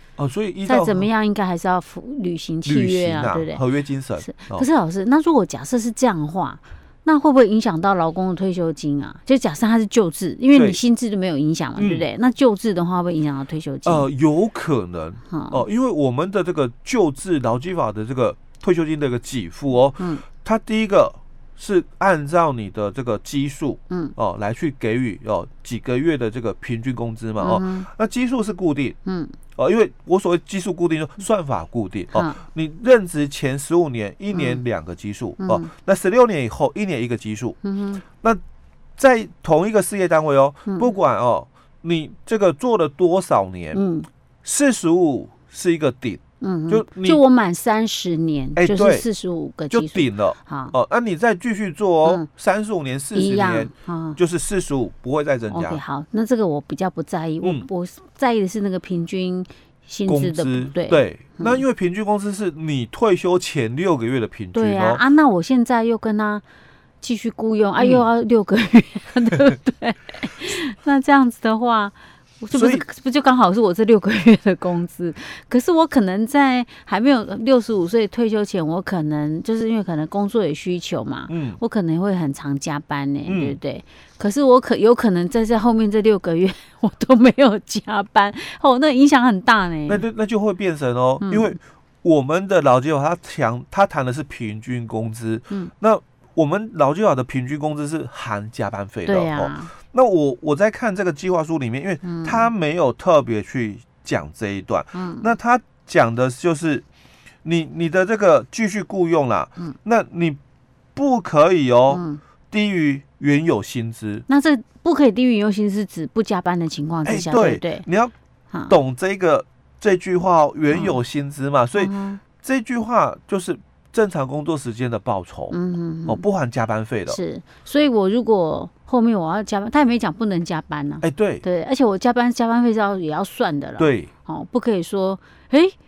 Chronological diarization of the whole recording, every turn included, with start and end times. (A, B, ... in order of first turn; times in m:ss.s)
0:00.2-0:01.1 A
0:00.7-0:03.6 B
0:02.6-0:04.7 A
0:04.2-0:14.1 B
0:10.5-0:10.8 A
0:11.8-0:12.1 A
0:13.8-0:29.0 A
0:15.3-0:15.6 B
0:23.9-0:24.2 B
0:27.4-0:27.9 B
0:29.0-0:29.4 B
0:29.6-0:37.6 A
0:32.2-0:32.4 B
0:34.3-0:34.6 B
0:35.4-0:35.7 B
0:37.6-0:38.0 B
0:39.0-0:43.8 A
0:40.7-0:40.9 B
0:43.7-0:44.1 B
0:44.4-0:47.2 A
0:46.4-0:50.8 B
0:48.6-0:49.1 A
0:49.7-0:55.8 A
0:53.1-0:54.2 B
0:55.5-1:01.6 B
0:57.4-0:57.7 A
1:00.1-1:05.0 A
1:04.5-1:06.4 B
1:07.0-1:30.0 B
1:07.8-1:08.1 A
1:12.5-1:12.8 A
1:21.3-1:21.6 A
1:23.3-1:23.6 A
1:29.9-1:46.9 A
1:31.2-1:31.6 B
1:39.1-1:39.7 B
1:42.0-1:42.5 B
1:44.9-1:45.3 B
1:47.4-1:50.4 A
1:51.0-1:54.3 A
1:51.9-1:52.2 B
1:54.3-1:57.9 B
1:57.0-1:58.1 A
1:58.7-2:05.6 A
2:00.7-2:01.0 B
2:01.8-2:02.2 B
2:05.5-2:06.2 B
2:06.1-2:07.2 A
2:07.1-2:15.8 B
2:11.0-2:11.4 A
2:13.8-2:14.1 A